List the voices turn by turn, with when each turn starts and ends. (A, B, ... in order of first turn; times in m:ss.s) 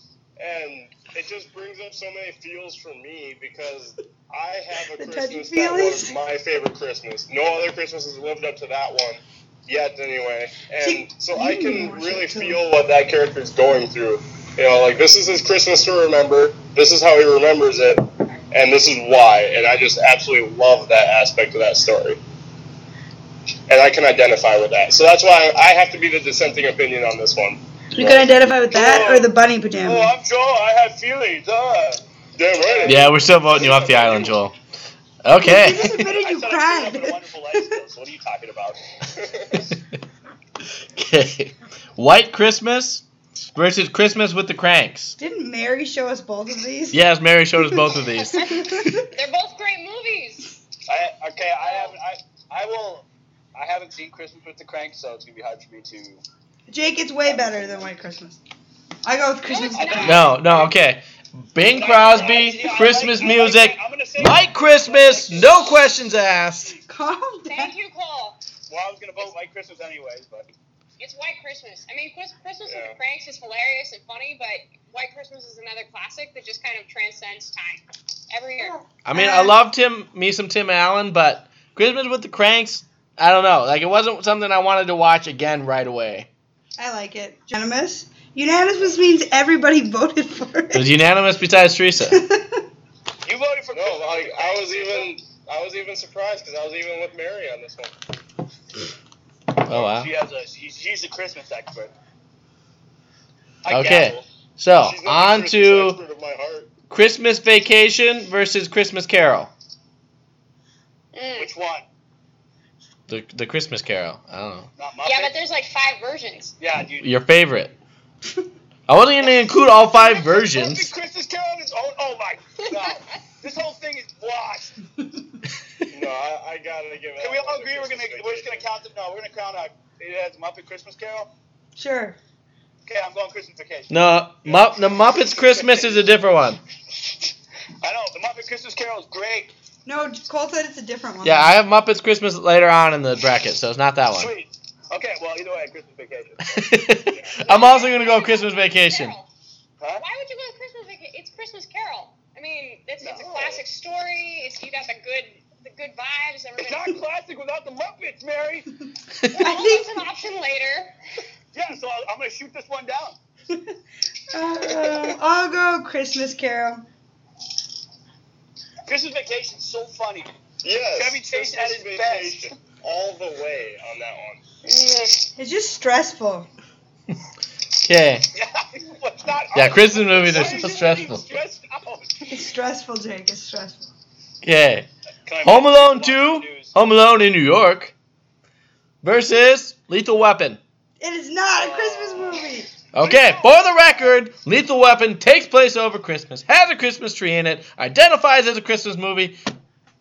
0:00.4-0:22.2 A
0:04.9-0:06.1 B
0:10.8-0:12.6 B
0:23.7-0:28.3 A
0:27.9-0:30.1 B
0:28.7-0:29.3 C
0:29.8-0:32.0 C
0:32.4-0:34.3 A
0:32.5-0:34.3 C
0:32.9-0:34.5 D
0:35.2-0:36.1 D
0:35.4-0:37.7 B
0:35.7-0:38.8 C
0:39.1-0:39.6 A
0:40.9-0:45.2 D
0:45.2-0:47.0 B
0:46.9-0:48.5 D
0:47.6-0:49.1 B
0:48.4-0:50.5 E
0:50.9-0:56.2 C
0:51.6-0:51.9 E
0:56.7-0:58.4 B
0:59.0-1:00.3 B
0:59.5-1:00.4 E
0:59.7-1:00.7 C
1:00.0-1:06.8 D
1:01.6-1:05.9 C
1:06.8-1:07.7 B
1:07.4-1:08.4 E
1:08.7-1:10.5 C
1:11.0-1:18.8 E
1:12.6-1:13.0 A
1:19.0-1:26.3 D
1:19.1-1:19.6 B
1:26.8-1:30.9 B
1:30.7-1:32.2 D
1:32.1-1:32.6 B
1:33.2-1:35.1 C
1:33.7-1:37.9 A
1:39.6-1:40.1 D
1:39.7-1:41.9 C
1:43.6-1:44.2 C
1:43.7-1:46.0 D
1:44.8-1:46.7 A
1:46.9-1:49.5 D
1:51.1-1:51.5 E
1:51.4-1:51.8 C
1:53.1-1:54.7 D
1:54.8-1:55.4 C
1:55.0-1:56.5 E
1:56.6-1:57.1 C
1:57.0-1:57.7 D
1:58.9-2:00.9 D
2:00.0-2:04.8 C
2:02.6-2:03.2 E
2:05.9-2:08.6 A
2:07.2-2:11.3 C
2:11.8-2:12.2 B
2:12.8-2:14.9 C
2:13.9-2:16.6 D
2:17.8-2:19.5 C
2:19.8-2:21.6 B
2:21.2-2:24.3 D
2:24.1-2:26.6 C
2:26.4-2:29.1 D
2:27.4-2:29.3 E
2:30.0-2:37.0 E
2:33.0-2:33.6 C
2:36.6-2:38.7 C
2:39.3-2:40.0 B
2:39.3-2:40.9 E
2:41.5-2:43.2 C
2:44.3-2:46.8 B
2:48.9-2:50.3 C
2:50.6-2:54.4 A
2:50.9-2:52.5 C
2:54.6-2:55.3 E
2:55.4-2:56.5 B
2:57.8-2:58.2 D
2:58.3-3:02.2 C
2:59.5-3:01.3 D
3:02.3-3:03.9 B
3:04.4-3:04.9 D
3:05.2-3:06.7 C
3:05.4-3:07.9 D
3:09.0-3:10.6 D
3:11.0-3:12.7 B
3:11.5-3:12.4 C
3:12.9-3:19.4 D
3:13.0-3:14.1 C